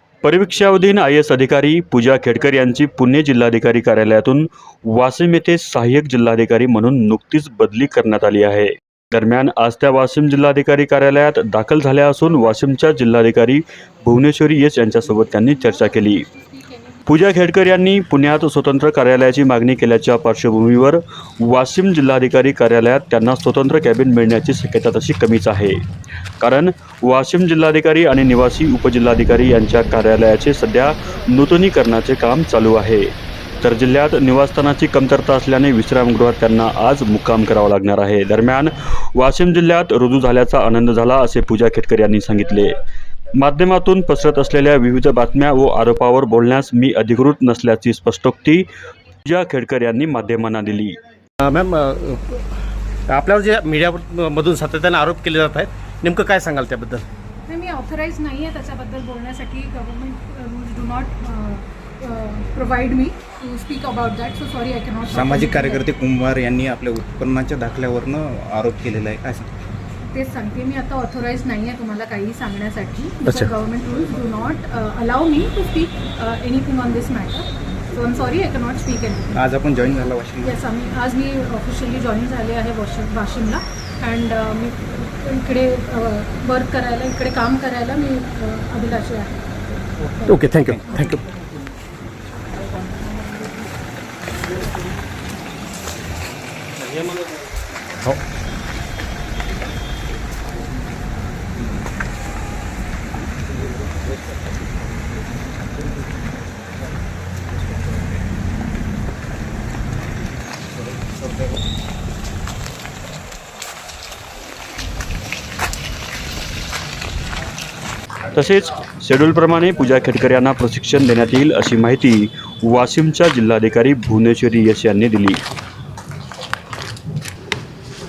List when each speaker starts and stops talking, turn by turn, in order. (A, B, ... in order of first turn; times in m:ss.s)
0:00.2-0:16.3 A
0:15.4-0:17.1 B
0:17.1-0:25.8 A
0:26.4-0:33.1 A
0:33.6-0:42.8 A
0:43.4-0:48.7 A
0:49.2-0:51.0 A
0:51.4-0:52.4 C
0:53.1-0:57.0 C
0:57.5-1:05.9 B
1:05.1-1:09.6 D
1:10.1-1:19.5 B
1:19.4-1:20.6 D
1:20.4-1:29.4 B
1:30.2-1:31.2 B
1:30.3-1:30.6 C
1:58.3-2:05.4 A